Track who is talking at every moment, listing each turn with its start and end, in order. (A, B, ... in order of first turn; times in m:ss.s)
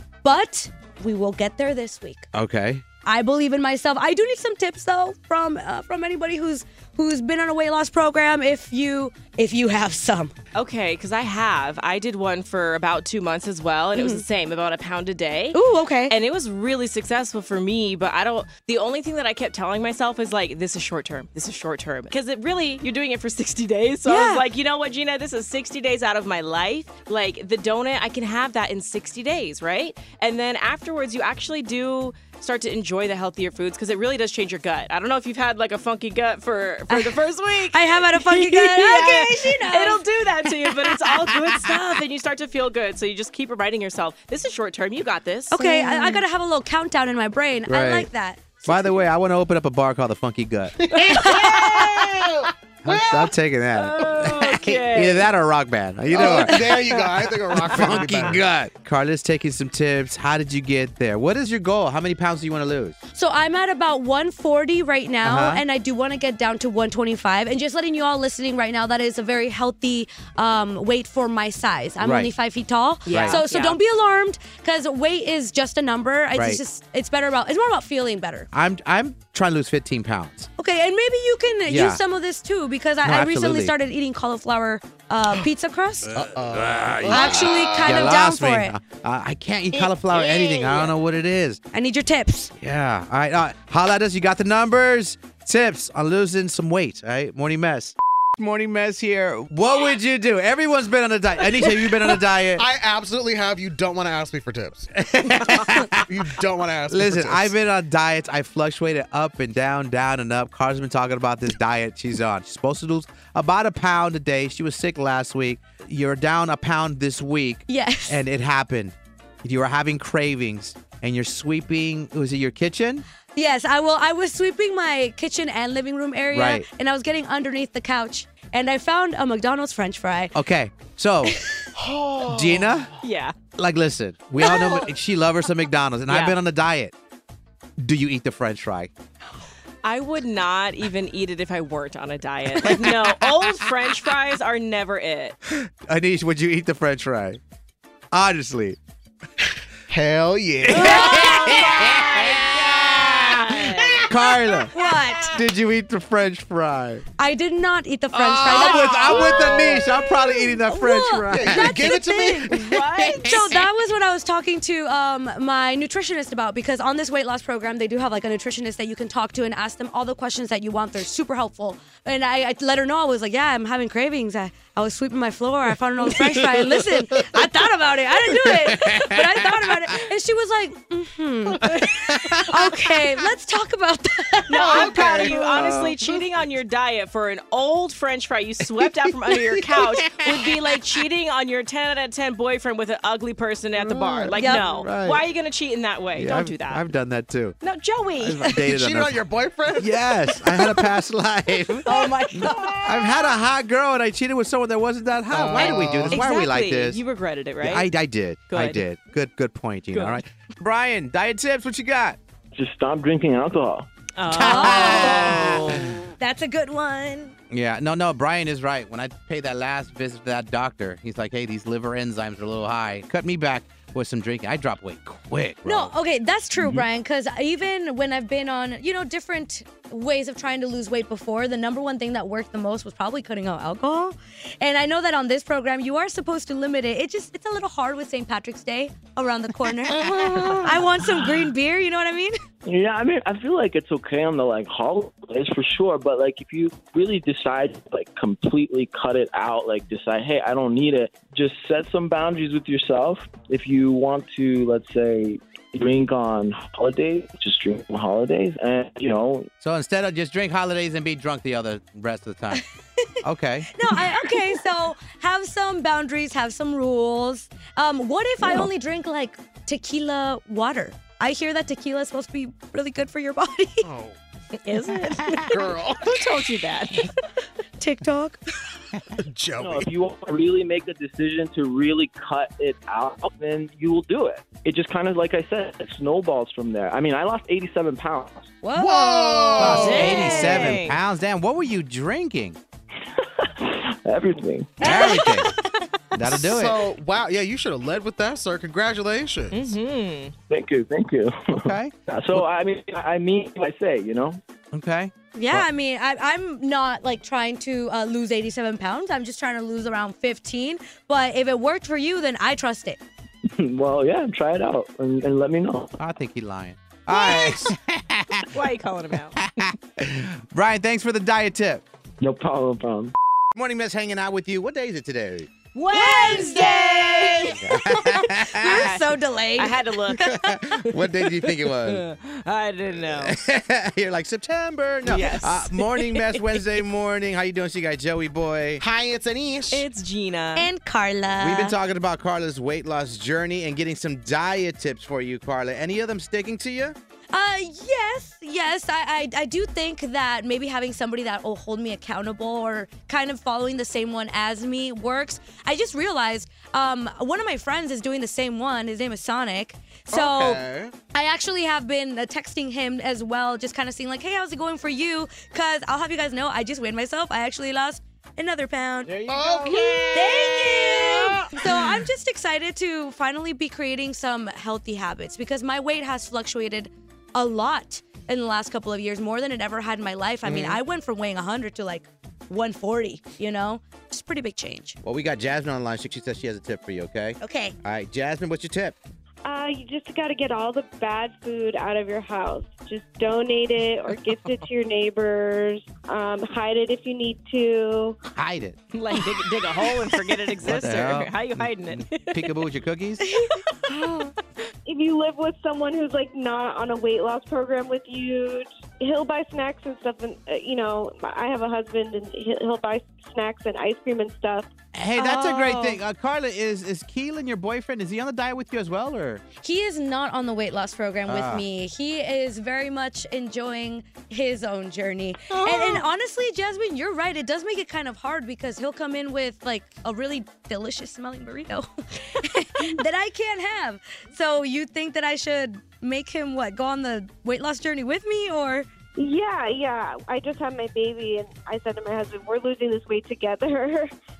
0:00.2-0:02.3 A
0:02.3-0:02.8 B
0:03.0-0:10.3 A
0:10.5-0:46.2 C
0:13.9-0:14.2 A
0:15.5-0:16.1 A
0:24.0-0:24.4 A
0:36.9-0:37.2 A
0:37.7-0:40.0 A
0:45.5-0:49.0 A
0:47.7-0:48.1 B
0:48.6-0:51.1 B
0:50.8-0:53.3 D
0:50.9-0:52.5 C
0:51.1-0:51.5 A
0:52.8-1:02.9 B
0:53.7-0:55.3 C
0:56.1-0:58.4 D
0:56.2-0:56.6 A
1:03.1-1:18.5 A
1:05.2-1:05.6 B
1:12.0-1:12.3 B
1:13.0-1:13.8 C
1:13.1-1:13.4 B
1:16.4-1:16.6 B
1:18.5-1:20.5 B
1:20.6-1:26.1 A
1:21.7-1:22.0 B
1:23.0-1:23.7 B
1:26.1-1:28.0 D
1:26.2-1:31.6 B
1:27.1-1:28.8 A
1:30.1-1:30.9 C
1:31.7-1:32.5 A
1:32.6-1:42.6 B
1:42.6-1:47.5 D
1:45.0-1:46.0 B
1:46.9-2:03.0 B
1:57.7-1:58.2 A
2:03.3-2:10.3 A
2:06.3-2:06.7 B
2:10.3-2:11.4 B
2:11.3-2:11.6 A
2:11.8-2:12.8 D
2:12.2-2:13.0 B
2:13.0-2:13.4 C
2:13.6-2:16.9 B
2:14.4-2:14.7 A
2:14.5-2:14.8 D
2:16.1-2:16.4 C
2:17.8-2:18.9 B
2:19.8-2:25.4 C
2:25.5-2:27.4 B
2:28.1-2:28.8 B
2:29.9-2:31.9 D
2:30.7-2:34.0 C
2:30.8-2:31.3 A
2:30.8-2:32.2 B
2:33.8-2:34.3 D
2:34.0-2:34.7 B
2:34.7-2:35.3 A
2:35.2-2:37.0 B
2:37.2-3:05.7 A
2:38.1-2:40.2 D
2:38.4-2:41.9 B
2:41.3-2:42.9 D
2:42.5-2:43.4 C
2:58.7-2:59.0 B
3:02.1-3:02.4 B
3:04.5-3:16.8 C
3:04.5-3:05.9 D
3:10.0-3:10.4 B
3:13.8-3:14.3 D
3:14.4-3:14.7 A
3:14.4-3:15.2 B
3:16.1-3:17.6 B
3:17.6-3:18.6 C
3:18.2-3:19.2 B
3:18.4-3:20.9 D
3:19.8-3:27.0 B
3:21.8-3:23.1 C
3:25.3-3:26.2 D
3:25.5-3:27.9 C
3:27.6-3:32.2 B
3:28.5-3:28.8 C
3:29.9-3:30.2 C
3:32.5-3:33.9 E
3:34.2-3:36.0 C
3:34.3-3:37.3 A
3:34.3-3:35.5 B
3:37.5-3:45.9 B
3:45.6-4:02.3 A
4:00.1-4:00.6 E
4:02.6-4:19.5 E
4:19.6-4:22.6 B
4:22.6-4:23.0 A
4:23.2-4:23.8 B
4:23.7-4:33.9 A
4:33.8-4:34.2 D
4:34.6-4:37.1 C
4:35.4-4:36.4 D
4:37.8-4:38.4 A
4:39.2-4:39.9 D
4:39.6-4:48.5 E
4:48.6-4:50.7 A
4:48.7-4:50.4 D
4:49.6-4:51.0 C
4:49.6-4:52.6 B
4:53.2-4:55.1 E
4:54.8-4:55.5 B
4:54.8-4:55.6 C
4:54.9-4:55.2 A
4:56.1-4:56.8 B
4:56.2-4:59.6 D
4:59.5-5:00.3 C
5:00.5-5:04.4 E
5:01.5-5:02.4 B
5:04.7-5:05.6 B
5:05.3-5:13.0 A
5:13.5-5:15.9 E
5:16.0-5:18.5 B
5:18.5-5:19.4 C
5:19.4-5:21.8 B
5:22.2-5:23.1 E
5:23.5-5:25.5 B
5:25.7-5:27.6 C
5:25.9-5:30.4 A
5:27.5-5:28.8 B
5:28.6-5:33.4 C
5:30.2-5:32.0 B
5:33.2-5:38.8 B
5:35.0-5:36.4 C
5:38.8-5:39.9 D
5:39.7-5:40.7 C
5:40.6-5:41.8 A
5:41.4-5:46.9 B
5:47.3-6:09.1 A
6:00.1-6:00.9 D
6:09.0-6:10.0 B
6:09.3-6:11.9 D
6:10.1-6:25.0 A
6:20.4-6:20.8 B
6:25.0-6:29.0 B
6:27.4-6:27.7 A
6:29.4-6:38.2 F
6:38.3-6:38.8 B
6:38.9-6:42.6 C
6:40.6-6:43.3 B
6:43.5-6:44.3 C
6:44.8-6:54.7 F
6:54.9-6:59.4 B
6:55.2-6:56.0 C
6:59.6-7:18.8 A
7:01.2-7:01.6 B
7:19.2-7:24.1 F